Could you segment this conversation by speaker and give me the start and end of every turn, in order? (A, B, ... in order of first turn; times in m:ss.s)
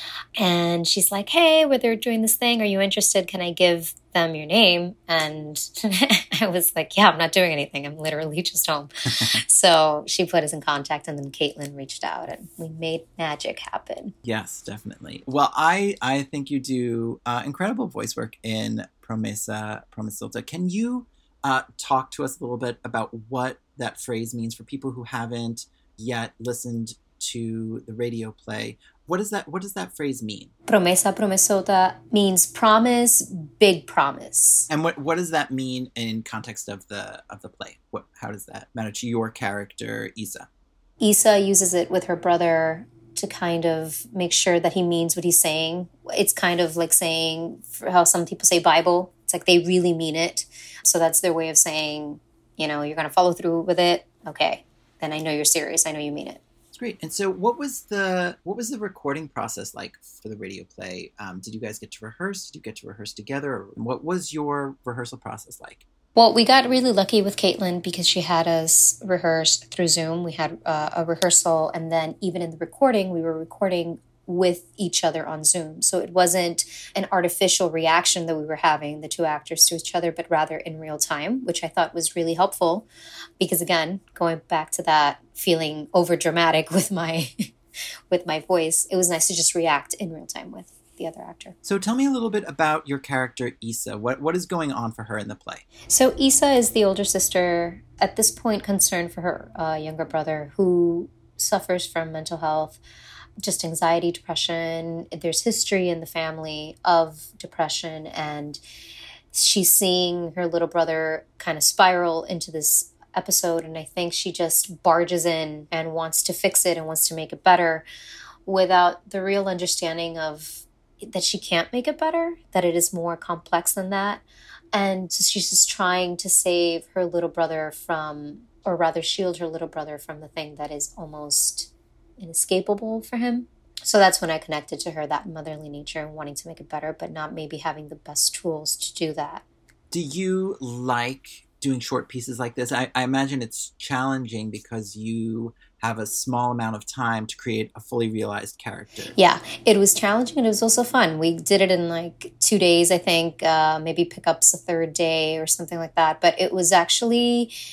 0:00.4-0:14.2 A
0:14.2-0:30.5 B
0:30.7-0:34.7 A
0:34.7-0:40.5 B
0:41.0-0:56.4 A
0:56.7-1:05.9 B
1:06.2-1:22.9 A
1:23.4-1:27.3 A
1:28.1-1:31.6 A
1:31.6-1:35.6 B
1:35.9-1:42.8 A
1:43.4-1:48.6 A
1:49.3-1:57.9 A
1:58.4-2:19.4 A
2:19.9-2:29.2 B
2:29.2-2:37.5 A